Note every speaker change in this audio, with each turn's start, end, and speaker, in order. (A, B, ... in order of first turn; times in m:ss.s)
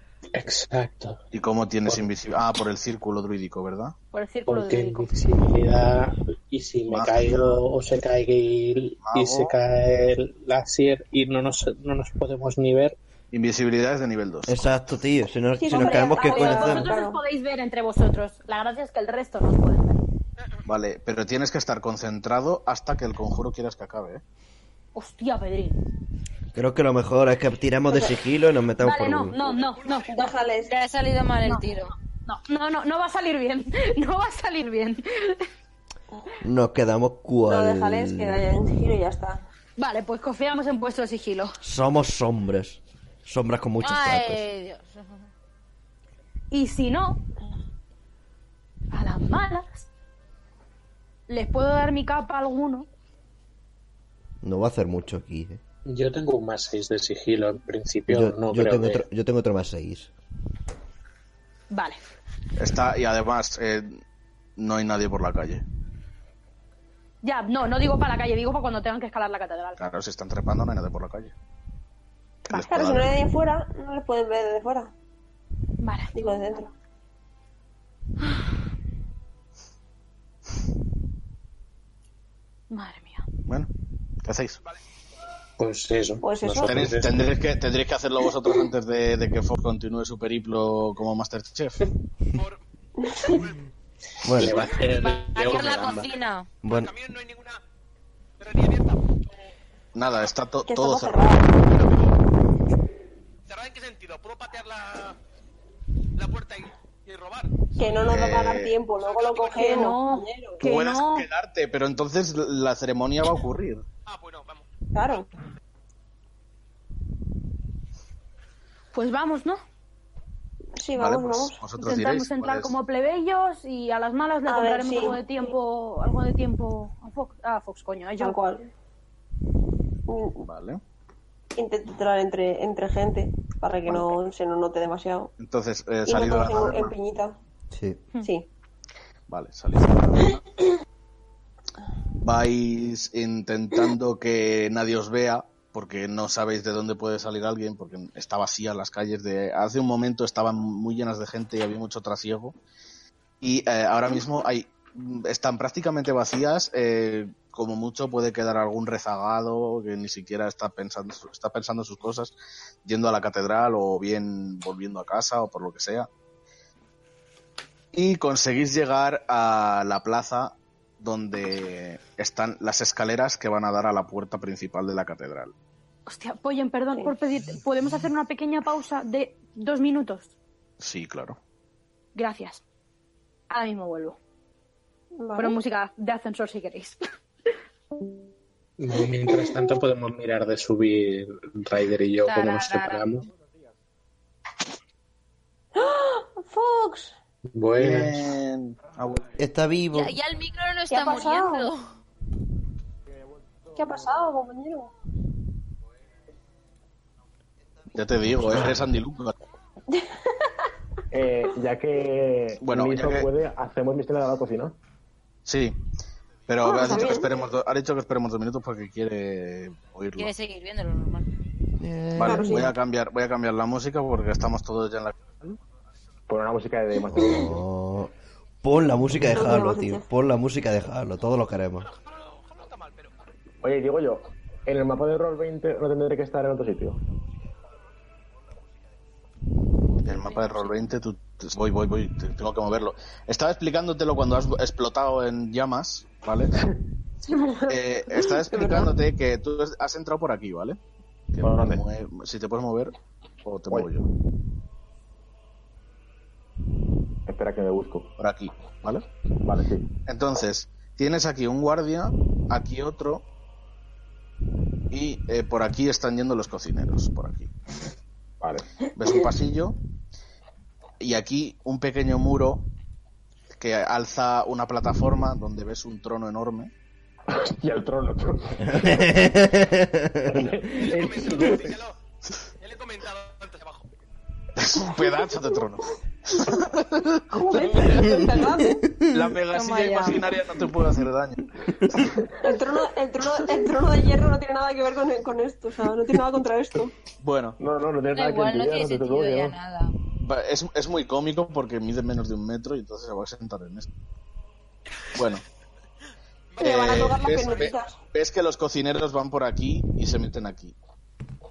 0:00.4-0:01.2 A
0:01.3-0:03.9 B
0:04.1-0:05.1 C
0:04.5-0:13.0 A
0:06.9-0:07.6 B
0:09.0-0:09.6 B
0:13.3-0:14.6 B
0:14.5-0:16.9 D
0:15.6-0:17.2 E
0:15.7-0:20.0 C
0:20.6-0:24.2 B
0:25.0-0:25.8 C
0:26.5-0:29.4 D
0:27.9-0:28.2 E
0:28.8-0:30.2 C
0:29.5-0:30.1 F
0:30.0-0:30.7 E
0:30.7-0:31.9 G
0:32.3-0:35.5 C
0:36.4-0:38.4 D
0:37.5-0:39.4 E
0:39.8-0:41.6 C
0:41.6-0:44.4 D
0:43.8-0:45.3 G
0:46.5-0:47.2 C
0:48.9-0:49.9 C
0:51.3-0:52.9 C
0:54.4-0:55.6 D
0:55.9-0:59.1 A
0:58.1-1:00.1 D
1:01.7-1:02.0 C
1:02.6-1:04.0 B
1:04.6-1:05.6 B
1:07.2-1:09.8 C
1:09.8-1:11.4 B
1:12.5-1:13.2 B
1:12.5-1:14.9 E
1:15.8-1:16.2 C
1:16.1-1:16.7 E
1:22.7-1:23.2 C
1:24.2-1:24.6 B
1:25.6-1:27.3 A
1:26.2-1:26.9 E
1:26.6-1:31.8 B
1:32.3-1:32.6 F
1:33.0-1:33.4 E
1:33.2-1:33.6 F
1:34.2-1:34.6 D
1:34.3-1:36.1 A
1:34.8-1:36.5 G
1:36.6-1:36.9 D
1:36.6-1:37.6 F
1:38.4-1:39.2 F
1:39.9-1:41.8 B
1:40.7-1:41.5 E
1:43.5-1:45.2 F
1:46.2-1:48.0 F
1:47.8-1:50.6 E
1:48.0-1:48.8 B
1:49.0-1:49.8 F
1:49.6-1:51.3 C
1:50.6-1:53.8 B
1:54.1-1:54.7 F
1:54.9-1:55.3 E
1:58.9-1:59.6 C
2:00.8-2:01.6 E
2:01.0-2:02.8 B
2:01.8-2:08.4 C
2:04.5-2:05.2 E
2:08.2-2:08.7 E
2:10.1-2:10.4 E
2:10.4-2:10.8 B
2:11.6-2:15.3 E
2:13.9-2:14.2 B
2:15.4-2:17.0 B
2:16.1-2:17.4 E
2:17.7-2:18.0 D
2:19.3-2:20.4 B
2:22.2-2:32.6 B
2:33.4-2:46.1 B
2:47.9-2:55.5 B
2:56.1-3:00.3 C
3:00.8-3:01.4 B
3:02.2-3:02.6 C
3:03.5-3:04.2 C
3:05.2-3:05.6 E
3:05.4-3:07.0 C
3:08.8-3:13.3 A
3:12.3-3:13.1 G
3:15.8-3:17.1 E
3:17.6-3:18.4 A
3:17.8-3:19.3 B
3:19.4-3:20.2 D
3:19.9-3:21.9 G
3:20.9-3:21.7 E
3:23.8-3:24.9 E
3:27.9-3:29.3 B
3:28.5-3:28.8 A
3:31.1-3:34.8 H
3:32.6-3:33.3 B
3:35.5-3:35.8 B
3:36.5-3:40.3 B
3:36.6-3:37.4 E
3:40.2-3:41.3 G
3:41.8-3:42.7 D
3:42.2-3:45.6 B
3:42.2-3:42.7 E
3:46.3-3:47.6 H
3:47.1-3:51.9 D
3:49.3-3:50.0 E
3:51.8-3:53.2 F
3:53.6-3:57.0 H
4:00.0-4:06.6 B
4:07.2-4:08.9 E
4:07.7-4:10.8 B
4:11.3-4:14.1 B
4:11.4-4:11.8 H
4:17.3-4:18.1 H
4:18.2-4:19.1 B
4:19.4-4:19.9 H
4:20.1-4:23.3 B
4:24.9-4:27.5 B
4:28.4-4:28.7 H
4:29.0-4:29.8 B
4:31.0-4:32.7 B
4:33.6-4:36.7 B
4:37.3-4:39.3 H
4:38.6-4:40.5 D
4:40.3-4:41.8 H
4:40.8-4:42.0 F
4:42.6-4:43.9 F
4:44.6-4:48.2 B
4:47.3-4:48.9 E
4:49.1-4:52.1 B
4:49.5-4:50.3 G
4:52.4-4:57.0 E
4:57.2-4:57.6 B
4:57.6-4:59.6 H
4:58.1-5:00.0 G
5:00.2-5:03.9 B
5:05.2-5:05.4 B
5:06.5-5:07.7 F
5:06.6-5:08.0 E
5:06.6-5:10.8 B